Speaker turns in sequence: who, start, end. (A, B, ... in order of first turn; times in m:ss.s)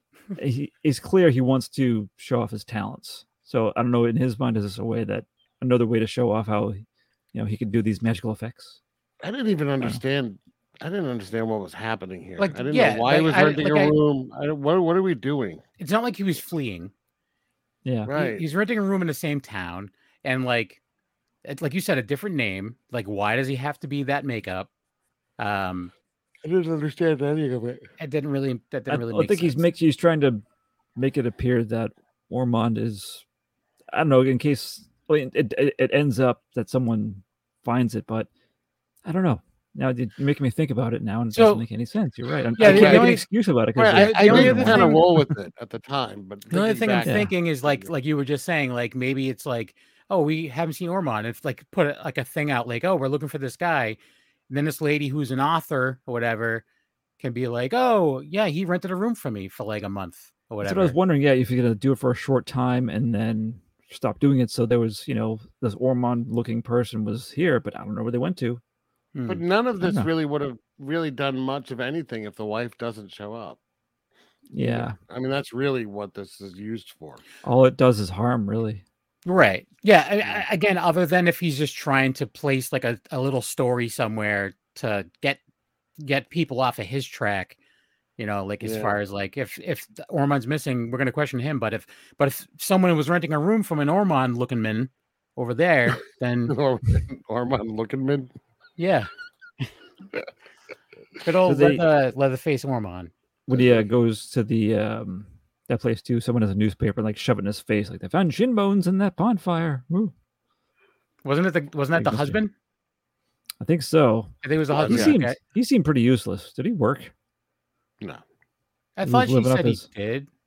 0:00.3-0:08.8 A
0:09.2-0:15.6 B
0:12.4-0:14.0 C
0:15.8-0:16.9 C
0:17.8-0:18.1 A
0:18.0-0:18.4 B
0:18.1-0:20.8 C
0:21.4-0:24.7 C
0:25.4-0:25.9 C
0:26.4-0:27.8 B
0:28.0-0:29.6 C
0:28.9-0:30.4 A
0:31.0-0:33.2 A
0:33.9-0:38.3 A
0:39.0-0:45.2 A
0:41.3-0:41.6 C
0:42.6-0:43.2 B
0:42.6-0:43.2 C
0:43.8-0:47.9 B
0:43.9-0:45.1 C
0:46.5-0:54.0 C
0:47.0-0:47.3 A
0:54.5-0:56.6 C
0:57.2-1:00.9 C
1:00.6-1:08.6 A
1:09.1-1:09.4 C
1:09.3-1:13.6 B
1:09.8-1:10.1 A
1:14.5-1:15.0 A
1:14.6-1:17.2 B
1:17.4-1:18.8 A
1:19.2-1:25.4 C
1:26.0-1:27.6 C
1:28.2-1:36.6 C
1:28.6-1:29.0 B
1:36.5-1:38.3 B
1:38.8-1:39.1 C
1:41.2-1:43.1 C
1:41.4-1:41.8 A
1:43.5-1:50.1 A
1:43.5-1:43.9 B
1:51.2-1:52.5 C
1:52.0-1:52.4 A
1:53.6-1:54.3 A
1:54.4-1:55.4 C
1:54.7-1:55.2 B
1:54.8-1:57.1 A
1:59.0-2:00.3 C
1:59.0-1:59.8 A